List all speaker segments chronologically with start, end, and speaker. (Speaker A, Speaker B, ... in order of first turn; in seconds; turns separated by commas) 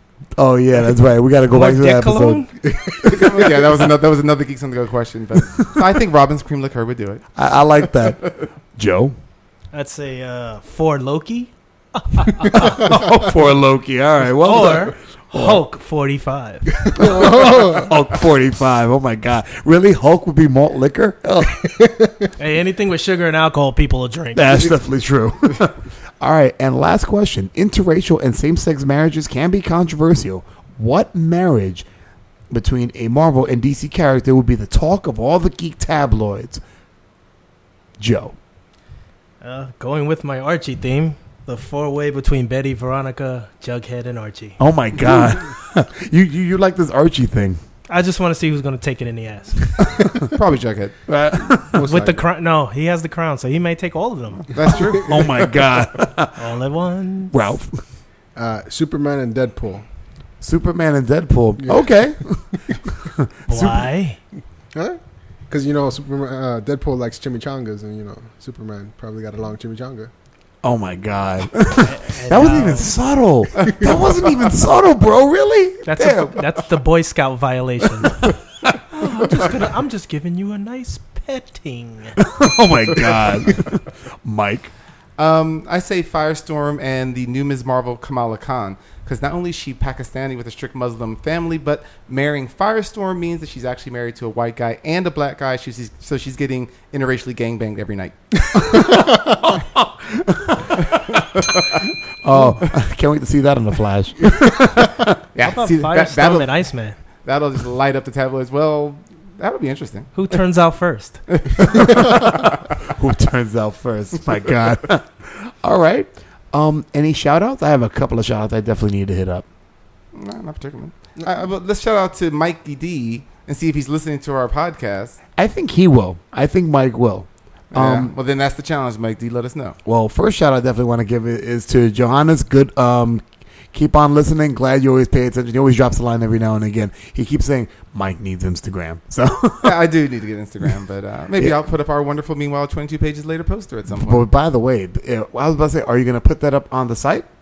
Speaker A: 0.4-2.4, Speaker B: 1.5-2.5, Speaker C: 2.6-3.5, Speaker D: 3.0-7.2, Speaker A: 7.3-9.1, Speaker D: 7.8-8.5, Speaker B: 9.7-13.1, Speaker A: 12.4-15.6, Speaker B: 14.4-17.0, Speaker A: 16.9-22.1, Speaker C: 17.0-17.9, Speaker B: 22.4-24.7, Speaker A: 24.3-31.9, Speaker A: 32.5-36.6, Speaker A: 38.0-38.3, Speaker B: 39.4-44.6, Speaker A: 44.6-47.6, Speaker B: 47.9-50.0, Speaker D: 50.3-51.0, Speaker A: 51.1-51.9, Speaker C: 51.7-52.2, Speaker B: 51.8-54.6, Speaker D: 54.5-55.5, Speaker A: 54.9-56.5, Speaker B: 56.4-57.3, Speaker A: 57.3-57.7, Speaker C: 58.3-59.8, Speaker A: 60.4-63.9, Speaker C: 61.6-61.9, Speaker B: 63.5-64.2, Speaker C: 64.7-70.1, Speaker A: 70.6-76.4, Speaker B: 71.7-72.9, Speaker B: 75.8-78.3, Speaker B: 78.9-82.2, Speaker A: 82.2-84.7, Speaker D: 85.2-98.2, Speaker A: 98.5-101.4, Speaker D: 101.3-101.7, Speaker A: 102.2-105.2, Speaker D: 105.3-106.5, Speaker B: 105.4-107.0, Speaker D: 107.2-110.1, Speaker B: 110.1-111.2, Speaker D: 111.3-112.2, Speaker A: 111.6-119.4, Speaker D: 120.1-125.2, Speaker A: 125.4-128.1, Speaker D: 127.7-129.8, Speaker A: 129.8-139.9, Speaker D: 139.6-144.3, Speaker A: 143.9-147.3